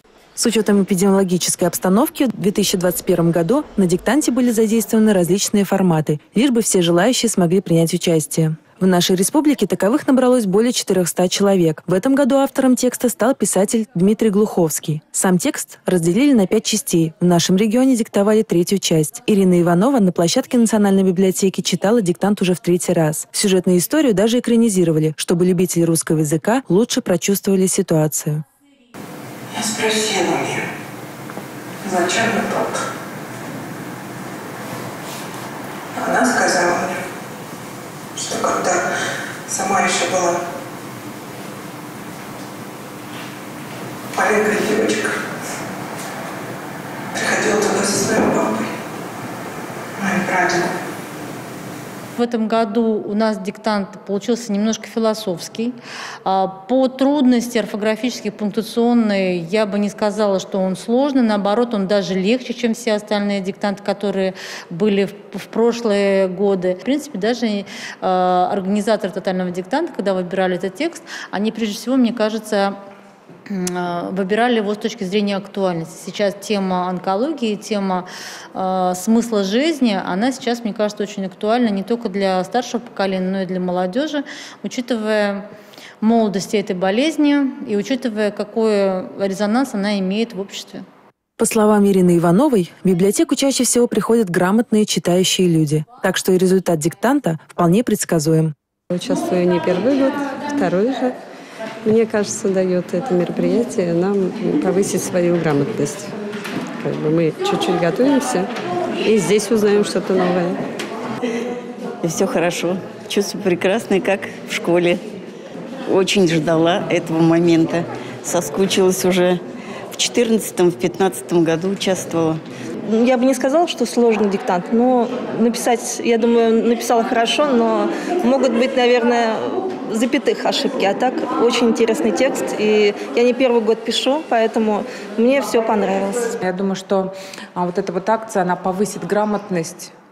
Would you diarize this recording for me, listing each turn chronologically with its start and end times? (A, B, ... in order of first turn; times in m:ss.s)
0:00.4-0:28.4 A
0:29.5-0:30.7 B
0:31.8-0:32.8 B
0:36.0-0:37.0 B
0:38.2-0:38.9 B
0:39.5-0:40.4 B
0:44.1-0:45.2 B
0:47.1-0:48.7 B
0:50.0-0:50.7 B
0:52.2-1:12.7 C
1:13.5-1:25.5 C
1:26.0-1:30.8 C
1:31.4-1:38.5 A
1:38.9-1:41.2 D
1:41.8-1:46.1 D
1:46.8-1:48.5 D
1:49.0-1:50.6 D
1:52.0-1:55.0 E
1:55.9-1:59.4 E
1:59.9-2:02.4 E
2:02.8-2:16.4 F
2:16.4-2:19.9 G